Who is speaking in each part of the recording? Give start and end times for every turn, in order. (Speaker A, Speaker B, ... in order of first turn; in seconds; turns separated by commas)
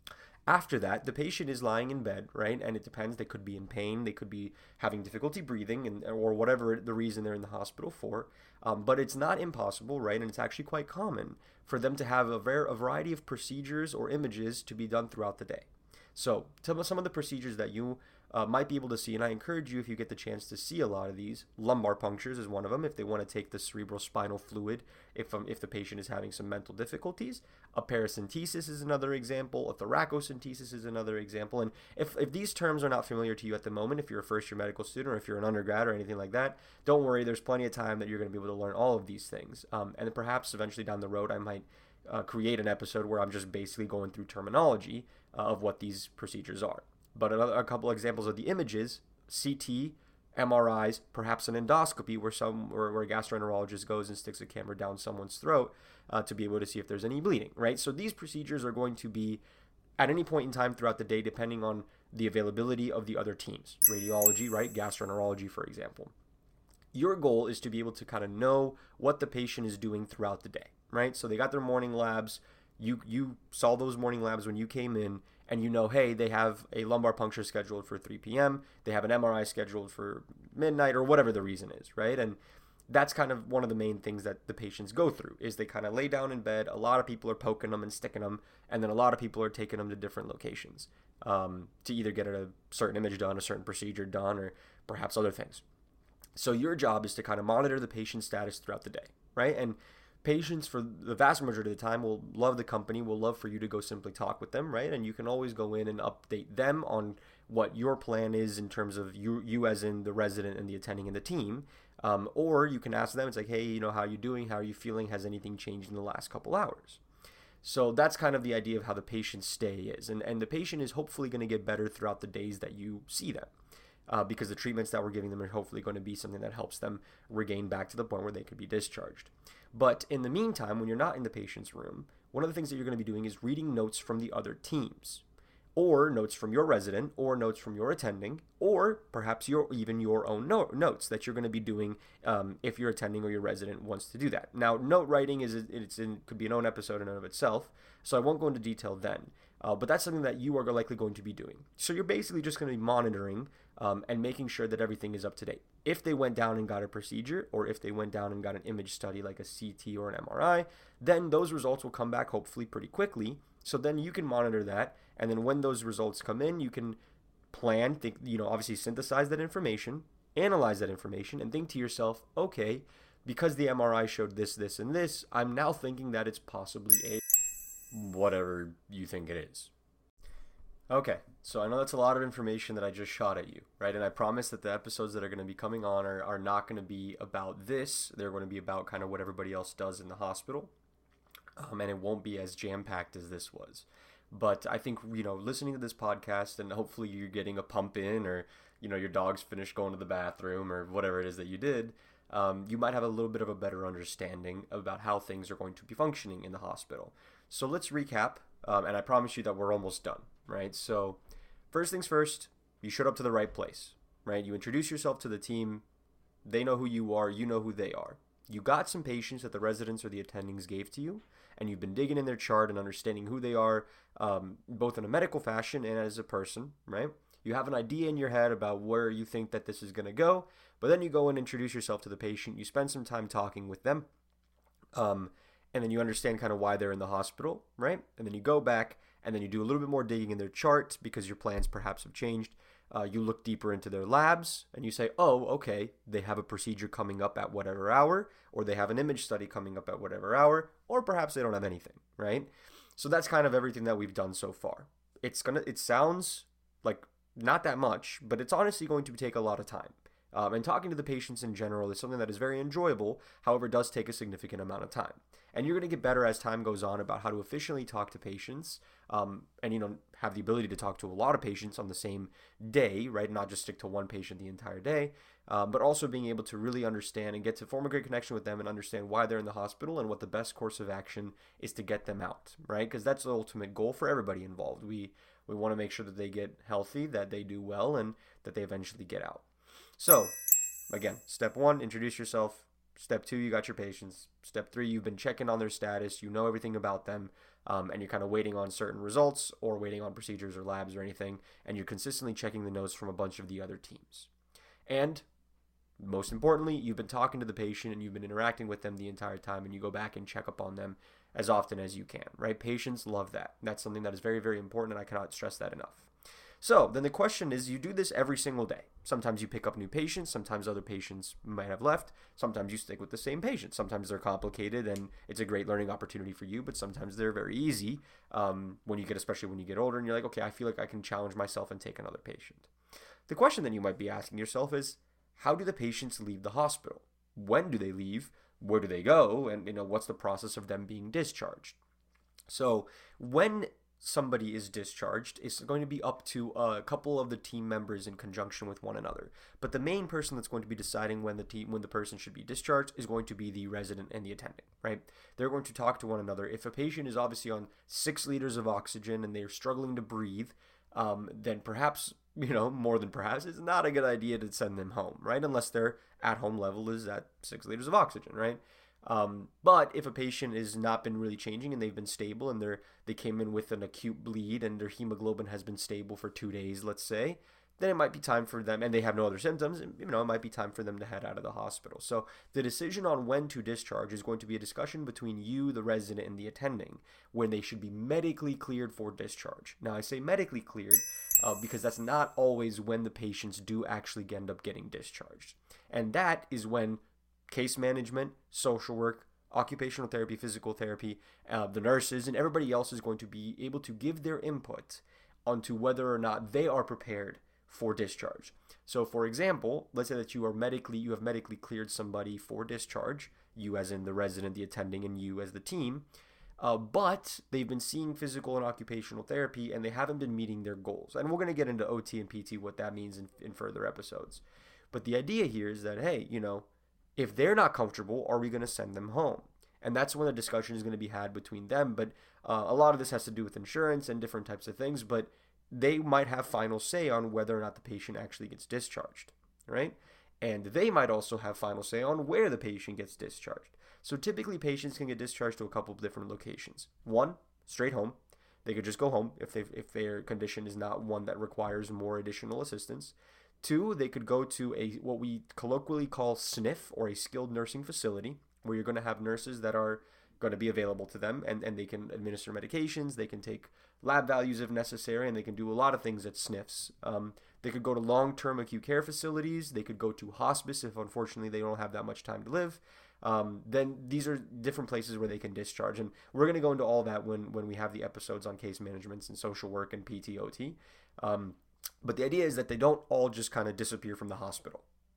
Speaker A: 0.5-59.4, Speaker A: 60.0-66.1, Speaker A: 66.9-95.6, Speaker A: 96.4-117.0, Speaker A: 117.6-123.5, Speaker A: 124.1-135.2, Speaker A: 135.8-167.0, Speaker A: 167.5-177.2, Speaker A: 177.9-179.7, Speaker A: 180.9-190.7, Speaker A: 191.6-211.2, Speaker A: 211.7-215.8, Speaker A: 216.4-234.1, Speaker A: 234.9-289.4, Speaker A: 290.0-290.4, Speaker A: 290.9-304.3, Speaker A: 304.9-305.2, Speaker A: 306.0-316.1, Speaker A: 316.6-332.7, Speaker A: 333.3-341.8, Speaker A: 342.5-416.1, Speaker A: 416.6-484.9